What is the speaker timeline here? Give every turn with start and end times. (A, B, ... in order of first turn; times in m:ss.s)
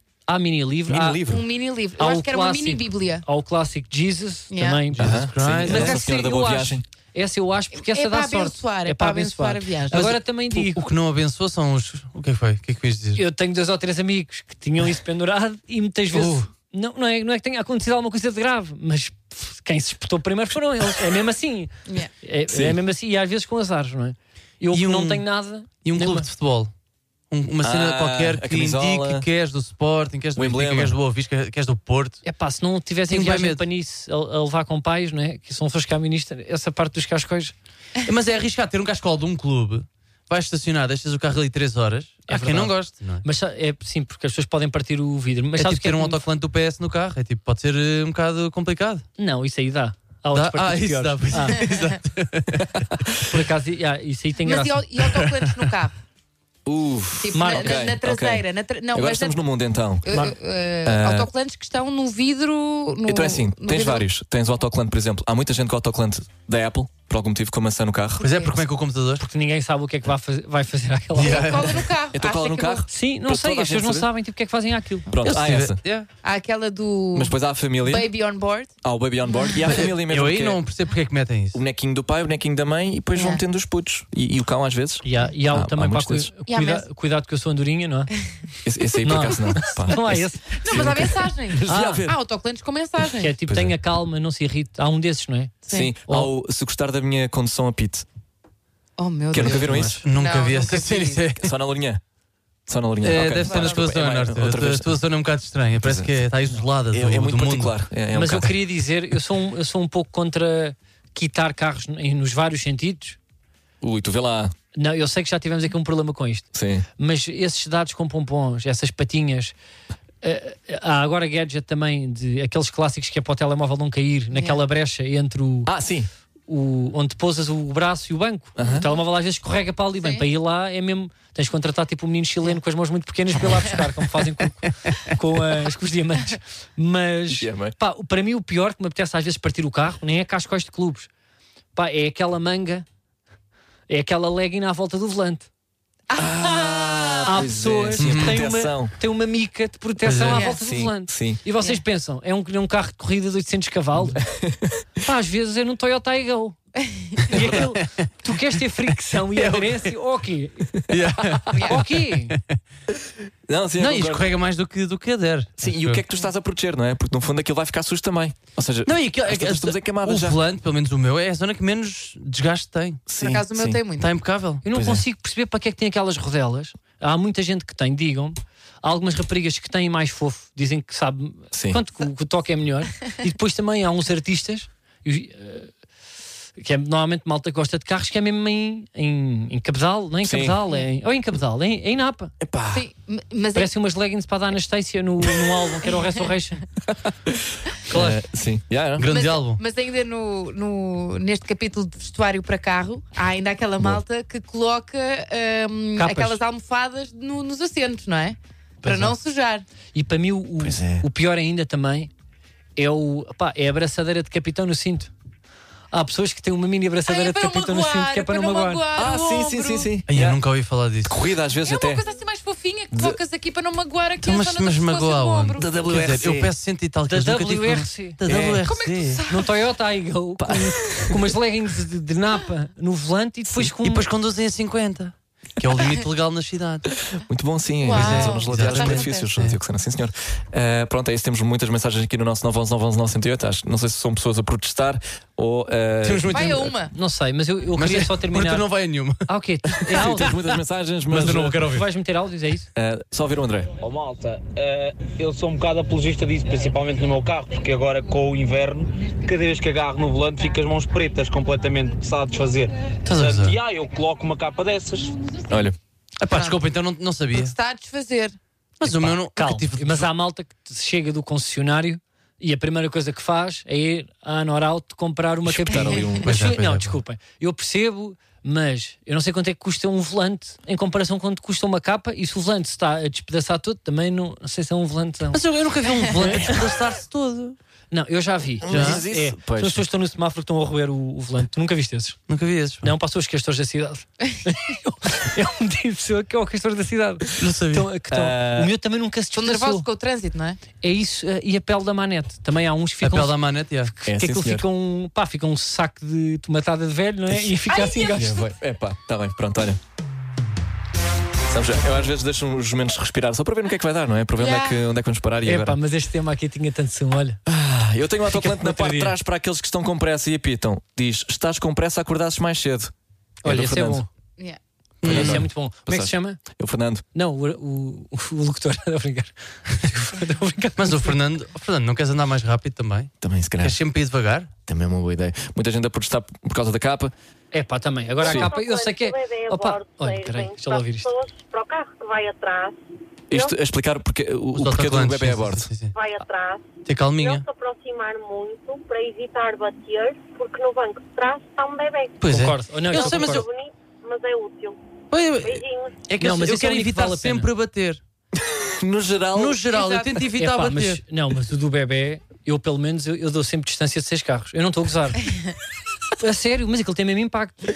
0:00.3-0:01.3 A
0:00.9-0:01.4 B
0:01.3-0:03.2 C
0:02.0-0:10.8 A
0:04.5-0:04.8 C
0:05.0-0:06.0 D
0:05.0-0:06.8 B
0:07.7-0:10.1 C
0:09.9-0:13.2 D
0:13.2-0:26.3 A
0:16.1-0:16.5 D
0:22.5-0:22.8 B
0:24.7-0:25.2 D
0:25.8-0:26.7 D
0:27.3-0:32.2 D
0:27.6-0:29.2 B
0:30.4-0:31.0 B
0:32.2-0:37.5 A
0:33.1-0:33.6 D
0:38.0-0:43.2 D
0:42.3-0:46.2 A
0:45.6-0:49.0 D
0:49.2-0:51.6 A
0:50.3-0:52.7 D
0:53.2-0:54.9 A
0:54.4-0:55.9 C
0:56.6-1:00.2 B
0:57.2-0:59.4 C
0:57.3-0:57.8 A
1:00.0-1:04.0 C
1:00.8-1:01.3 B
1:03.0-1:08.3 B
1:08.2-1:09.2 D
1:09.2-1:11.6 A
1:11.2-1:12.9 C
1:11.2-1:11.8 D
1:12.1-1:14.1 B
1:12.9-1:15.1 A
1:15.1-1:15.8 B
1:15.2-1:16.1 D
1:16.2-1:18.7 C
1:17.1-1:18.1 B
1:18.8-1:20.6 B
1:19.7-1:21.6 D
1:21.5-1:26.3 B
1:23.1-1:23.4 C
1:25.0-1:28.1 A
1:26.5-1:26.8 C
1:28.6-1:32.2 B
1:29.0-1:30.9 A
1:30.6-1:33.3 C
1:31.6-1:32.1 A
1:33.2-1:36.3 A
1:33.5-1:33.7 B
1:35.6-1:35.9 C
1:35.7-1:38.0 B
1:39.0-1:41.2 C
1:39.3-1:40.0 B
1:39.4-1:40.0 A
1:40.0-1:41.5 D
1:41.4-1:42.0 B
1:42.7-1:45.0 B
1:43.0-1:47.7 D
1:43.4-1:43.8 C
1:45.8-1:46.2 B
1:46.9-1:48.6 B
1:48.1-1:53.2 A
1:53.8-1:54.5 B
1:54.7-1:59.5 A
1:56.5-1:56.8 B
2:00.2-2:05.7 A
2:04.3-2:04.6 C
2:05.7-2:06.1 B
2:06.5-2:21.1 A
2:08.6-2:08.8 B
2:08.6-2:08.9 C
2:17.3-2:17.7 B
2:21.8-2:22.8 A
2:23.9-2:25.5 A
2:26.1-2:27.3 C
2:26.1-2:28.9 B
2:27.2-2:34.2 A
2:28.0-2:28.4 D
2:30.0-2:30.4 D
2:30.3-2:30.6 C
2:30.6-2:31.4 B
2:34.2-2:34.8 B
2:35.0-2:36.6 A
2:36.9-2:37.2 C
2:37.2-2:40.8 A
2:37.4-2:37.9 D
2:39.3-2:39.9 D
2:40.9-2:42.4 D
2:41.0-2:41.4 B
2:41.5-2:41.8 C
2:41.6-2:42.4 A
2:43.4-2:44.3 B
2:43.8-2:46.0 D
2:45.6-2:50.4 B
2:48.8-2:53.0 D
2:53.1-2:53.8 B
2:53.1-2:54.1 C
2:54.0-2:54.6 D
2:54.6-3:05.7 A
2:54.7-2:55.0 B
3:01.5-3:01.8 B
3:06.6-3:12.3 A
3:10.2-3:10.6 B
3:12.4-3:12.8 B
3:12.7-3:13.7 C
3:13.5-3:16.6 A
3:16.9-3:19.1 B
3:17.9-3:18.2 D
3:19.0-3:19.6 D
3:19.1-3:29.6 C
3:26.0-3:26.4 A
3:28.8-3:29.2 A
3:29.9-3:32.1 A
3:30.6-3:31.0 B
3:32.8-3:35.1 A
3:35.9-3:38.8 A
3:37.1-3:39.9 C
3:38.9-3:40.4 B
3:40.1-3:41.1 D
3:41.0-3:42.0 B
3:41.6-3:45.7 C
3:42.9-3:43.2 B
3:44.2-3:49.2 D
3:45.6-3:46.5 B
3:47.1-3:48.6 A
3:48.6-3:49.5 C
3:49.3-3:54.1 A
3:50.4-3:51.4 B
3:53.8-3:56.9 D
3:57.0-4:06.7 B
3:57.8-3:59.3 C
3:57.9-3:59.6 D
4:06.0-4:06.7 D
4:06.3-4:06.9 C
4:06.9-4:08.6 A
4:07.8-4:09.2 D
4:09.2-4:10.3 A
4:09.8-4:11.7 B
4:09.9-4:10.6 D
4:11.1-4:11.8 D
4:11.5-4:12.7 A
4:12.7-4:13.7 B
4:13.8-4:25.2 E
4:23.0-4:23.6 D
4:25.5-4:25.8 B
4:26.2-4:27.5 D
4:26.3-4:26.6 C
4:27.3-4:28.4 C
4:28.8-4:30.1 D
4:28.8-4:29.1 B
4:29.3-4:45.4 A
4:35.4-4:36.3 B
4:36.2-4:37.0 D
4:45.3-4:47.6 D
4:46.2-4:46.5 A
4:47.9-4:52.2 A
4:48.6-4:49.8 B
4:48.7-4:49.0 D
4:52.3-4:52.9 D
4:52.8-4:59.8 A
4:57.3-4:57.9 D
4:58.1-4:58.7 B
4:59.3-5:00.6 C
5:00.8-5:08.3 A
5:03.0-5:03.9 D
5:04.0-5:04.6 B
5:07.6-5:08.4 C
5:08.1-5:09.8 B
5:11.5-5:15.8 B
5:14.4-5:14.8 C
5:15.4-5:17.4 A
5:17.4-5:22.9 B
5:18.3-5:19.1 A
5:23.4-5:24.1 A
5:23.4-5:24.0 B
5:25.0-5:25.5 D
5:25.0-5:26.4 A
5:25.0-5:27.0 B
5:27.1-5:31.2 A
5:30.8-5:34.5 D
5:33.2-5:33.8 B
5:34.7-5:37.1 B
5:37.5-5:41.1 A
5:38.2-5:42.8 F
5:38.2-5:38.5 B
5:43.3-5:43.6 F
5:43.3-5:45.7 B
5:44.5-5:45.9 D
5:45.9-5:52.2 F
5:46.8-5:47.4 D
5:52.2-5:53.5 D
5:52.2-5:53.4 A
5:52.9-5:54.8 F
5:55.1-5:58.0 D
5:55.4-5:56.0 F
5:56.2-5:57.5 A
5:58.4-5:59.6 B
5:59.3-6:01.0 D
5:59.7-6:00.1 C
6:00.4-6:05.3 A
6:06.2-6:07.6 A